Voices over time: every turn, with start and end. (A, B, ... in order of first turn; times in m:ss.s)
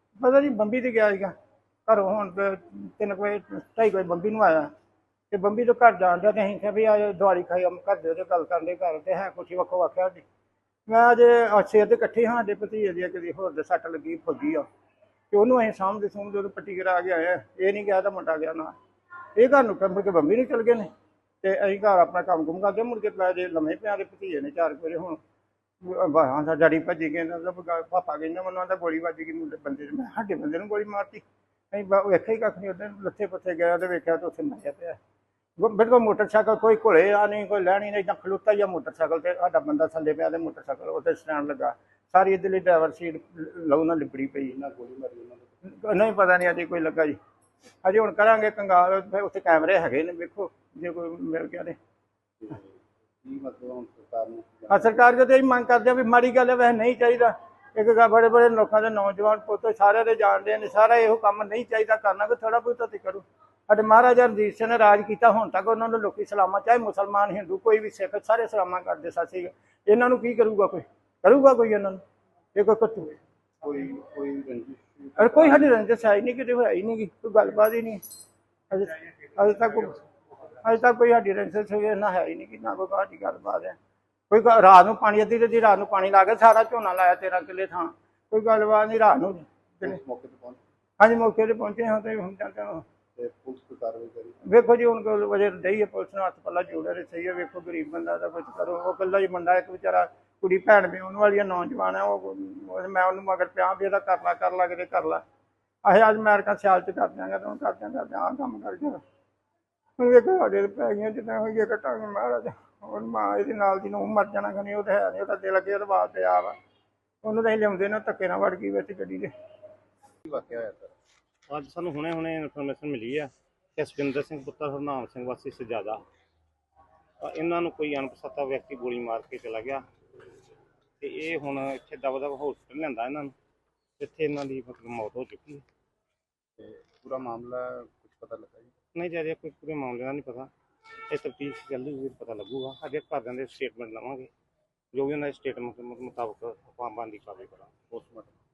0:00.2-0:01.3 A
0:01.8-0:04.7 A
0:05.3-0:10.2 A
0:10.9-0:14.6 A
0:15.3-0:18.7 A
0:19.4-0:20.9 A
0:21.4-0:25.2 A
0:25.8-0:35.0 A
0:35.6-0:44.6 A
0:44.4-0:45.5 B
0:45.6-0:47.2 A
0:47.8-0:51.8 A
0:52.4-0:55.0 B
0:54.7-1:12.0 A
1:12.5-1:13.1 A
1:13.6-1:15.7 B
1:15.2-1:18.0 A
1:18.7-1:20.0 A
1:20.6-1:23.8 A
1:24.3-1:30.0 A
1:29.8-1:30.6 B
1:31.0-1:32.8 A
1:33.2-1:34.4 B
1:34.4-1:45.2 A
1:45.8-1:49.0 A
1:50.0-1:56.6 A
1:57.2-1:59.3 A
2:00.2-2:00.9 B
2:01.5-2:06.0 C
2:07.2-2:09.8 C
2:11.0-2:13.3 C
2:14.0-2:15.6 C
2:16.6-2:18.7 B
2:18.9-2:20.5 C
2:21.1-2:24.3 C
2:24.9-2:27.8 C
2:27.9-2:28.4 B